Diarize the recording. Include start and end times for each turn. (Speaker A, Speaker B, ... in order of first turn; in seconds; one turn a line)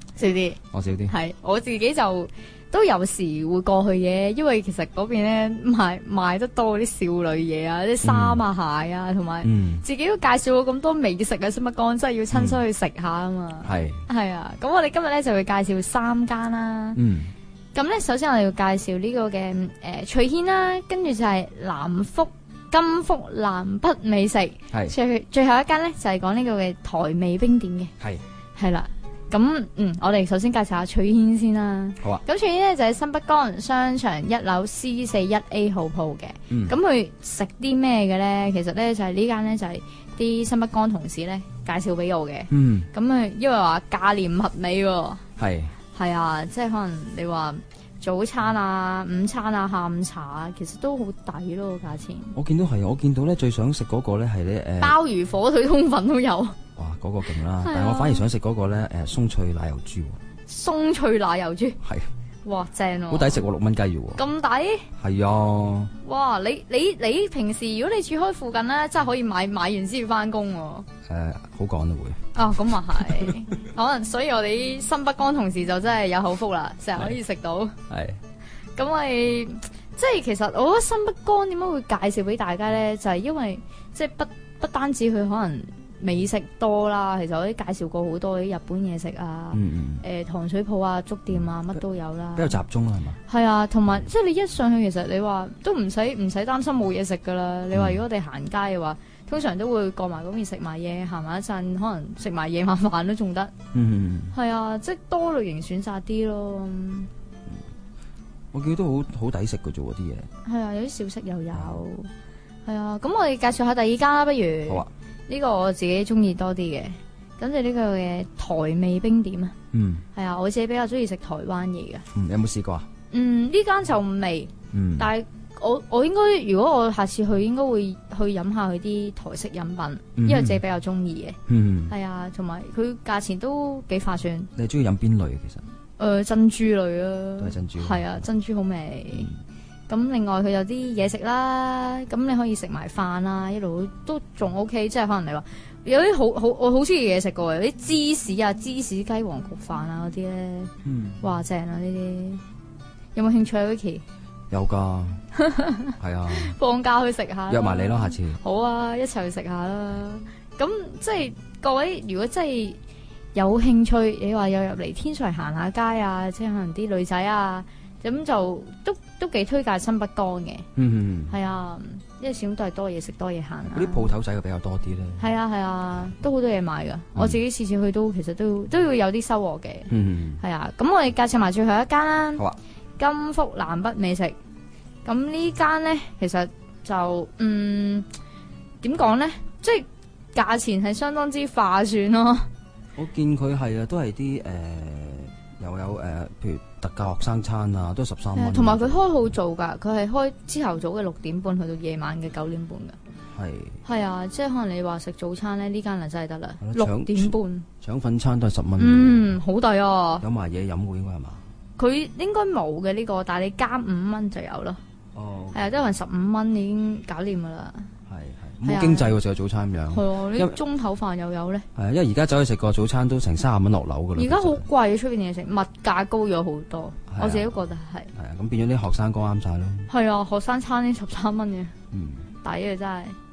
Speaker A: 0.2-17.0
Speaker B: 0.7-1.1
Speaker B: 8.0-8.4
Speaker B: 9.4-9.8
Speaker B: 12.3-12.6
Speaker B: 13.6-14.1
Speaker B: 17.0-17.3
Speaker A: 17.7-27.9
Speaker A: 28.6-45.2
Speaker B: 36.5-36.8
Speaker B: 42.5-42.9
Speaker B: 45.4-45.8
Speaker A: 45.9-52.4
Speaker B: 52.4-55.0
Speaker A: 54.8-56.6
Speaker B: 56.8-60.2
Speaker A: 57.6-58.2
Speaker A: 60.5-61.8
Speaker B: 61.8-62.1
Speaker A: 62.5-63.5
Speaker B: 63.1-64.2
Speaker A: 64.2-64.9
Speaker B: 65.0-65.9
Speaker A: 66.0-70.9
Speaker B: 71.1-72.2
Speaker A: 72.3-77.8
Speaker B: 72.9-73.3
Speaker B: 77.9-78.2
Speaker A: 78.8-92.6
Speaker B: 89.5-90.0
Speaker B: 92.4-93.2
Speaker A: 93.3-103.5
Speaker B: 97.7-98.0
Speaker B: 103.7-104.3
Speaker A: 104.3-107.1
Speaker B: 108.5-110.3
Speaker A: 110.5-112.1
Speaker A: 112.7-119.5
Speaker B: 119.7-120.0
Speaker A: 120.2-122.0
Speaker B: 122.2-122.9
Speaker A: 123.1-131.4
Speaker B: 124.7-125.1
Speaker B: 130.2-130.6
Speaker B: 131.5-131.9
Speaker A: 131.9-134.5
Speaker B: 134.6-135.7
Speaker A: 136.0-139.3
Speaker B: 137.4-138.2
Speaker A: 139.9-152.4
Speaker B: 150.8-151.2
Speaker A: 153.2-154.0
Speaker B: 154.5-155.2
Speaker A: 155.4-162.8
Speaker B: 156.0-156.6
Speaker B: 157.5-158.4
Speaker A: 163.3-170.7
Speaker B: 170.8-171.4
Speaker A: 171.3-174.1
Speaker B: 173.7-175.3
Speaker A: 175.2-182.4
Speaker B: 177.2-177.4
Speaker B: 179.9-180.4
Speaker A: 183.0-184.4
Speaker A: 185.1-188.1
Speaker A: 188.8-192.5
Speaker B: 193.0-199.3
Speaker A: 198.3-203.0
Speaker B: 203.3-203.8
Speaker A: 203.8-207.7
Speaker B: 206.6-209.4
Speaker A: 208.8-210.2
Speaker B: 210.2-211.4
Speaker A: 211.8-214.8
Speaker B: 215.2-215.8
Speaker A: 215.5-217.9
Speaker B: 218.1-220.6
Speaker A: 218.6-219.1
Speaker A: 219.9-221.7
Speaker B: 221.8-224.7
Speaker A: 224.2-228.1
Speaker B: 227.1-227.6
Speaker B: 228.1-229.9
Speaker A: 229.9-231.7
Speaker B: 231.9-232.3
Speaker A: 232.4-233.2